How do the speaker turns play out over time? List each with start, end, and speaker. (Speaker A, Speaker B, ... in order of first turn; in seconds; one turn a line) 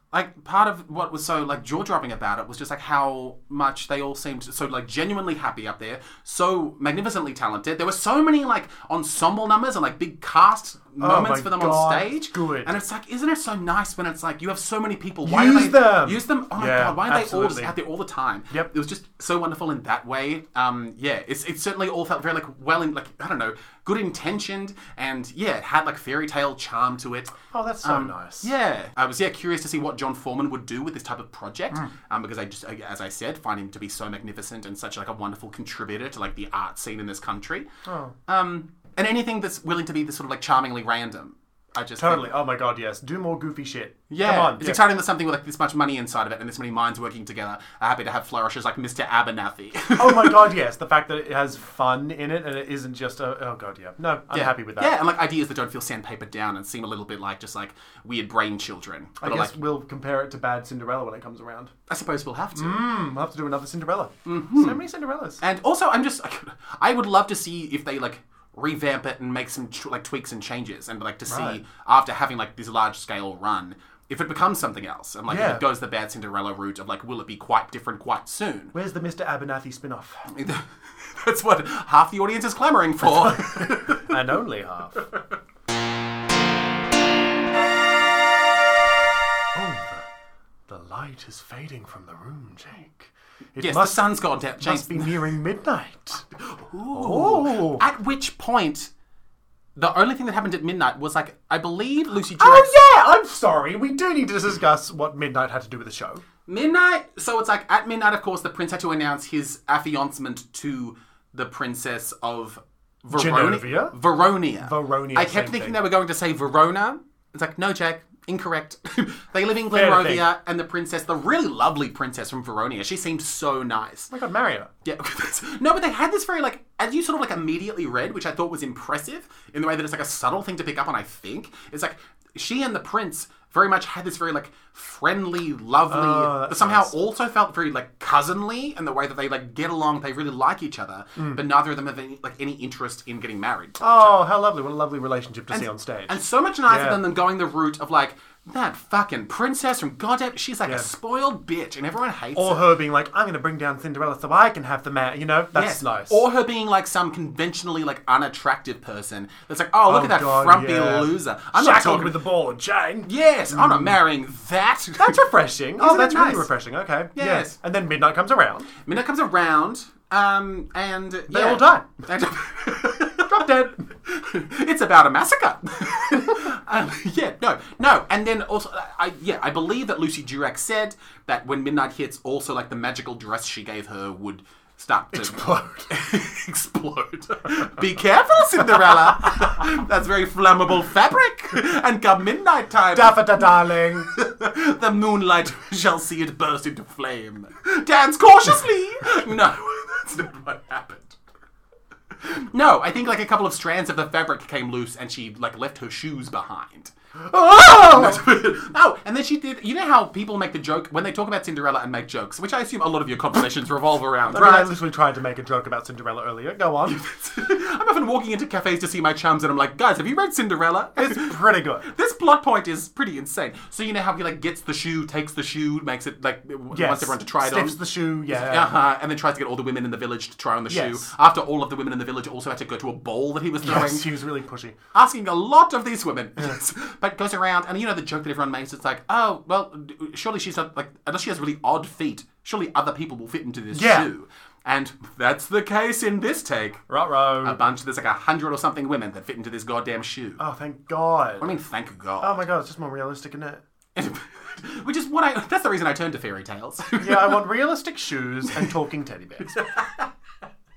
Speaker A: 0.1-37.7
Speaker B: 11.0-12.8
Speaker B: 15.2-17.8
Speaker B: 27.5-28.5
Speaker B: 37.9-38.1
Speaker A: 38.3-42.3
Speaker B: 42.0-44.8
Speaker A: 44.1-50.5
Speaker B: 50.0-55.0
Speaker A: 54.3-59.5
Speaker B: 59.2-61.7
Speaker A: 61.9-62.9
Speaker B: 62.5-65.4
Speaker A: 64.3-64.8
Speaker A: 65.4-78.7
Speaker B: 71.3-71.6
Speaker B: 75.3-75.7
Speaker B: 78.7-80.2
Speaker A: 80.3-84.2
Speaker B: 83.1-85.0
Speaker B: 89.5-90.1
Speaker B: 90.7-96.3
Speaker A: 93.6-95.3
Speaker A: 96.5-98.9
Speaker B: 96.9-97.8
Speaker A: 99.8-102.7
Speaker B: 102.4-106.2
Speaker A: 106.5-124.1
Speaker B: 113.1-114.0
Speaker B: 114.6-115.8
Speaker B: 119.7-120.3
Speaker B: 124.1-124.7
Speaker A: 124.8-144.2
Speaker B: 135.9-136.9
Speaker B: 143.8-147.0
Speaker A: 145.5-152.7
Speaker B: 152.3-156.2
Speaker A: 155.5-162.2
Speaker B: 159.9-164.0
Speaker A: 163.1-166.5
Speaker B: 165.0-168.7
Speaker A: 167.2-167.6
Speaker A: 168.8-201.2
Speaker B: 171.3-171.9
Speaker B: 173.3-173.9
Speaker B: 185.1-185.9
Speaker B: 192.9-194.1
Speaker A: 202.2-206.9
Speaker B: 207.2-208.3
Speaker A: 207.5-214.7
Speaker B: 214.3-217.0
Speaker A: 216.9-227.8
Speaker B: 221.0-221.9
Speaker B: 226.7-228.8
Speaker A: 228.3-234.1
Speaker B: 230.7-231.1
Speaker B: 233.6-234.8
Speaker A: 234.9-246.8
Speaker B: 243.7-244.1
Speaker B: 246.9-247.6
Speaker A: 247.4-250.4
Speaker B: 250.4-251.6
Speaker A: 251.4-252.4
Speaker B: 252.2-253.6
Speaker A: 253.9-257.4
Speaker B: 257.0-259.6
Speaker A: 259.6-260.1